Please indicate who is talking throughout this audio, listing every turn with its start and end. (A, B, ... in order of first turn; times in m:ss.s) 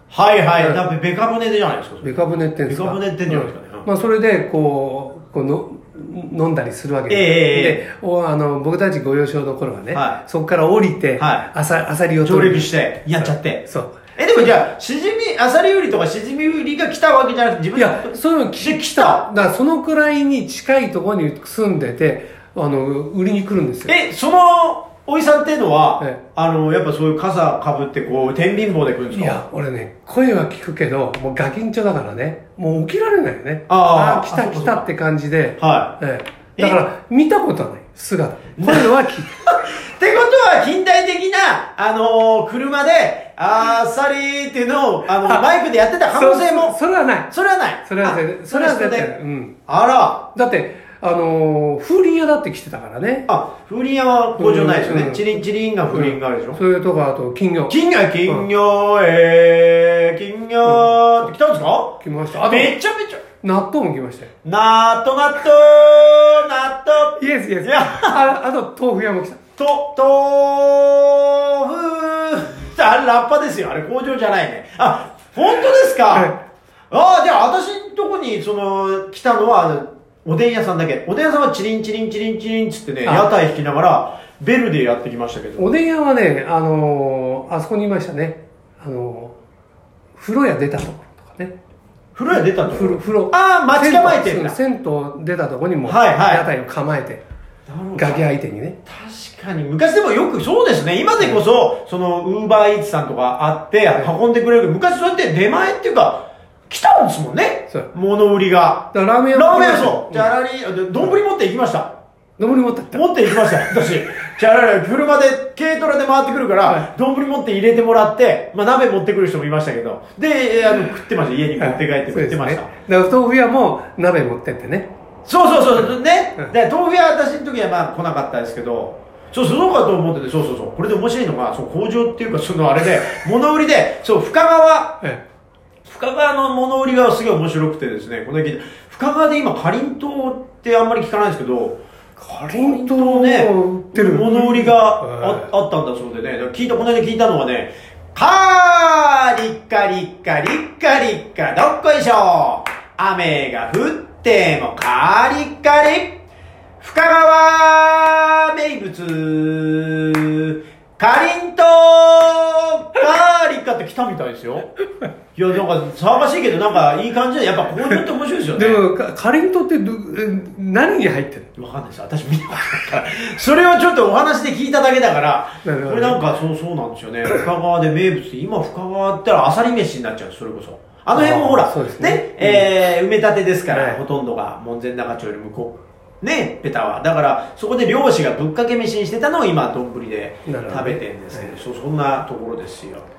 0:00.1-0:03.9 A
0:02.0-0:14.6 B
0:07.1-0:07.8 A
0:09.9-0:10.2 A
0:11.2-0:11.5 A
0:12.2-0:13.6 A
0:14.2-0:19.2 A
0:17.7-0:23.9 B
0:23.8-0:29.4 A
0:29.1-0:39.4 B
0:33.7-0:34.8 A
0:35.6-0:35.9 A
0:38.6-0:46.8 A
0:45.2-0:45.4 B
0:46.1-0:47.3 B
0:47.3-0:49.1 A
0:47.8-0:49.6 B
0:49.7-0:50.2 A
0:50.3-0:53.3 B
0:53.3-0:56.6 A
0:54.4-0:55.2 B
0:55.9-0:58.5 B
0:57.7-1:03.2 A
1:00.6-1:01.1 B
1:02.0-1:02.7 B
1:03.4-1:04.3 B
1:04.4-1:08.2 A
1:07.2-1:09.4 B
1:09.6-1:16.3 A
1:16.1-1:16.4 B
1:16.9-1:25.7 A
1:23.0-1:23.3 B
1:25.6-1:29.3 B
1:30.2-1:31.5 B
1:32.1-1:34.6 A
1:32.3-1:37.2 B
1:35.8-1:36.4 A
1:37.7-1:38.2 A
1:38.0-1:38.8 B
1:38.8-1:51.9 A
1:48.9-1:50.3 B
1:52.4-1:53.1 B
1:52.9-2:02.7 A
2:01.6-2:04.9 B
2:05.2-2:15.0 A
2:05.8-2:06.5 B
2:15.9-2:21.8 A
2:22.2-2:25.5 B
2:22.6-2:36.2 A
2:36.8-2:44.7 A
2:45.3-2:48.8 A
2:48.5-2:51.5 B
2:51.6-3:13.0 A
2:55.6-2:56.2 B
3:01.1-3:02.7 B
3:03.7-3:04.0 B
3:10.4-3:11.5 B